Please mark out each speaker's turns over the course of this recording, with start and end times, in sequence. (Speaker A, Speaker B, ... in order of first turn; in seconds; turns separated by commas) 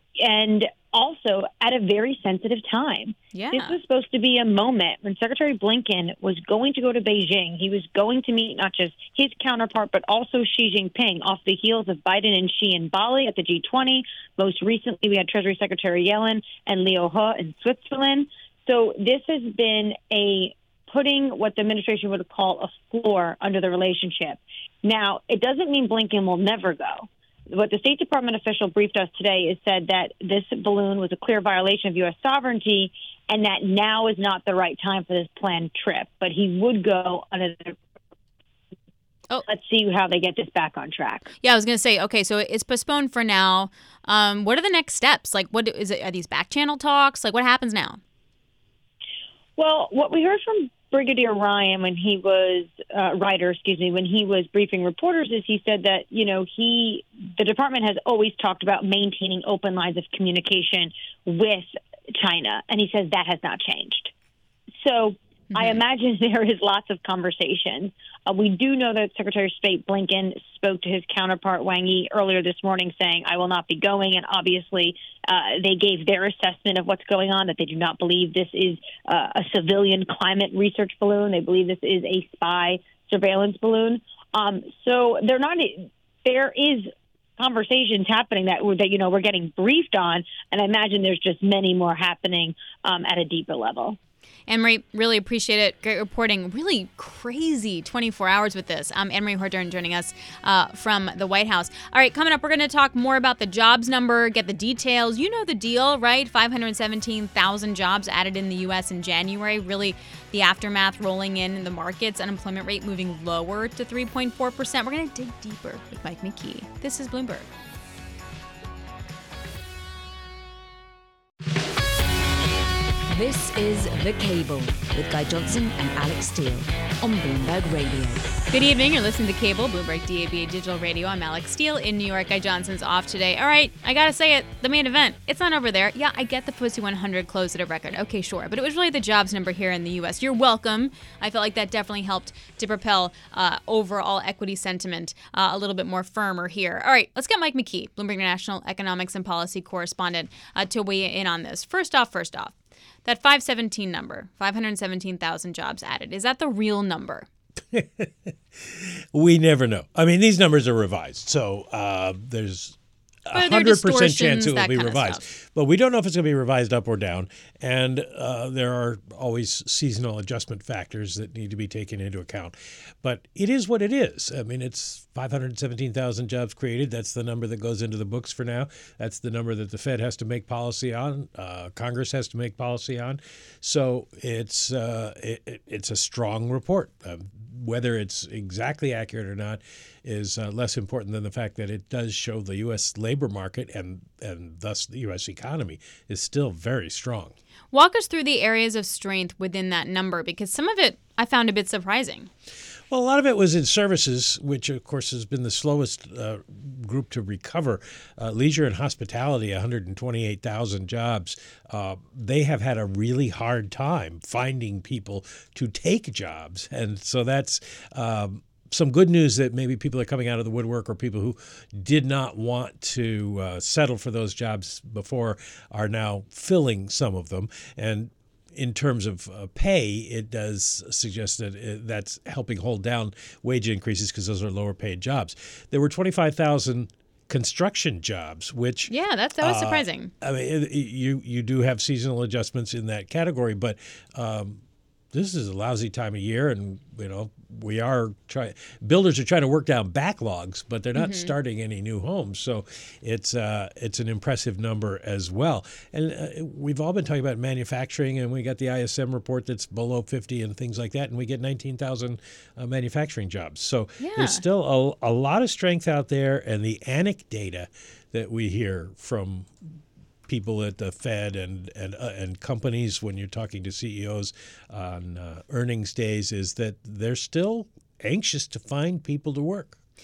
Speaker A: 0.2-37.8, Speaker B: 3.3-3.8, Speaker A: 39.5-41.3, Speaker B: 41.4-48.0, Speaker A: 49.6-64.1, Speaker A: 64.8-94.0, Speaker B: 65.5-65.8, Speaker B: 94.5-117.5, Speaker C: 123.1-128.3, Speaker B: 128.5-152.5, Speaker B: 153.1-157.3, Speaker D: 157.7-162.8, Speaker D: 163.3-197.3, Speaker B: 163.3-165.2, Speaker B: 197.7-202.3, Speaker D: 202.9-269.7, Speaker B: 238.9-240.1, Speaker B: 251.0-251.3, Speaker B: 264.0-264.4, Speaker D: 270.3-279.8